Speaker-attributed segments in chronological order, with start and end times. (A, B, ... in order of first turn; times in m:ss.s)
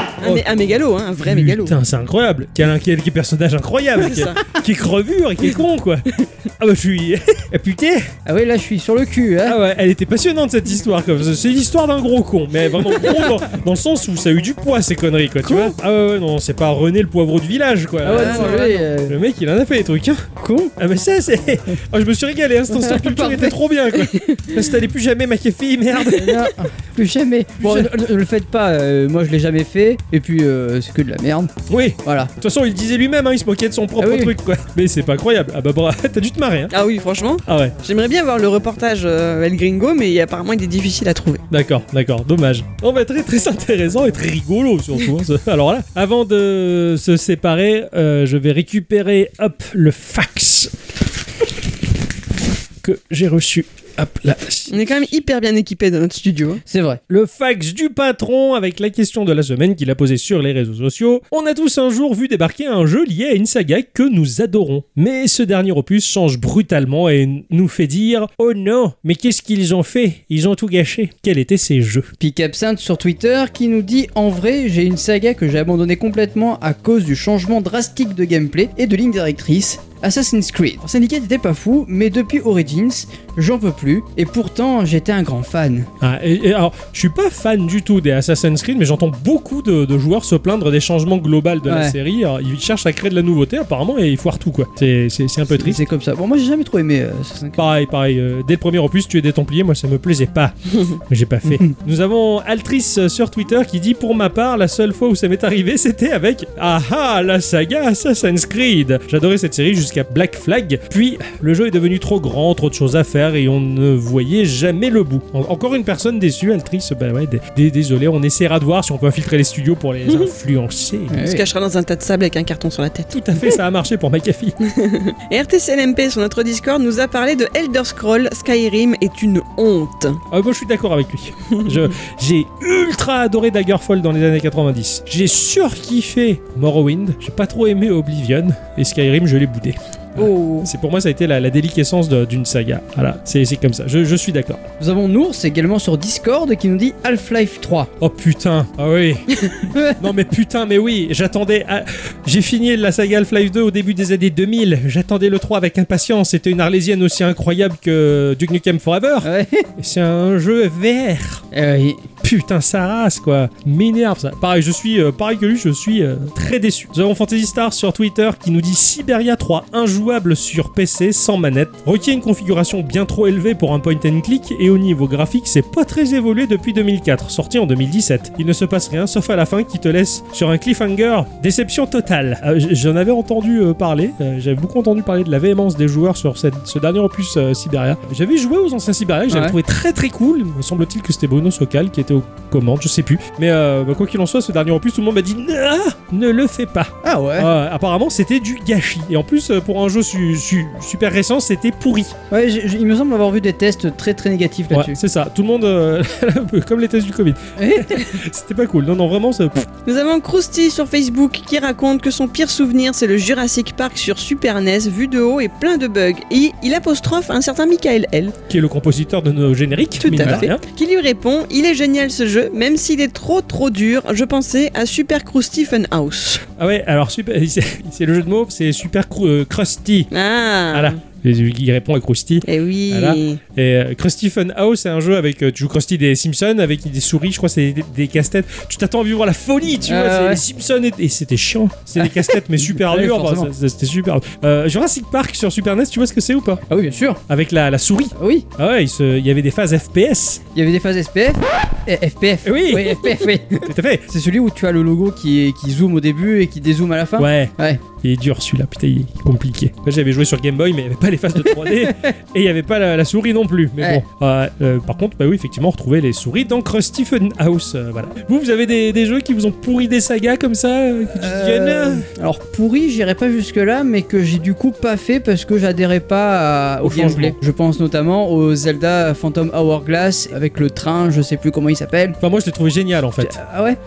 0:00.2-0:01.8 A
0:01.2-0:08.1 B
0:04.0-0:04.4 A
0:08.2-0:09.6 C
0:09.5-0:20.3 B
0:15.4-0:15.8 C
0:18.0-0:19.2 C
0:18.1-0:18.8 A
0:20.4-0:20.7 C
0:20.8-0:26.5 B
0:22.7-0:23.6 C
0:24.1-0:24.5 A
0:26.1-0:31.5 C
0:27.6-0:27.9 B
0:31.7-0:36.7 B
0:32.0-0:32.3 C
0:34.0-0:34.4 C
0:36.7-0:41.4 A
0:37.5-0:37.8 B
0:41.5-0:50.7 B
0:52.8-0:55.1 B
0:54.7-0:56.6 A
0:56.7-0:57.0 C
0:57.1-1:12.1 B
1:12.2-1:25.9 C
1:26.0-1:35.8 B
1:31.6-1:32.0 C
1:35.5-1:37.6 C
1:37.6-2:01.2 B
1:41.4-1:41.7 C
2:01.1-2:01.5 C
2:01.2-2:03.2 A
2:03.1-2:04.6 B
2:04.6-2:10.2 A
2:10.3-2:24.6 B
2:20.2-2:20.7 A
2:24.8-2:27.9 C
2:28.0-2:41.4 B
2:29.6-2:30.0 C
2:39.2-2:39.7 C
2:41.5-2:42.0 C
2:42.2-3:22.2 B
3:09.3-3:09.6 C
3:17.0-3:17.5 C
3:22.3-3:25.0 C
3:24.7-3:29.7 B
3:27.6-3:28.2 C
3:29.9-3:38.4 A
3:38.5-3:40.6 B
3:40.0-3:46.4 A
3:46.6-3:50.1 B
3:50.1-3:51.0 A
3:50.7-4:06.6 B
3:52.4-3:53.4 A
3:59.8-4:00.4 C
4:02.0-4:03.5 C
4:06.7-4:07.2 C
4:07.3-4:10.4 B
4:08.2-4:08.5 C
4:10.5-4:17.8 C
4:12.4-4:14.1 B
4:17.2-4:32.1 B
4:21.4-4:22.1 C
4:31.2-4:42.2 C
4:36.8-4:37.4 B
4:42.2-4:43.4 B
4:43.2-4:43.8 C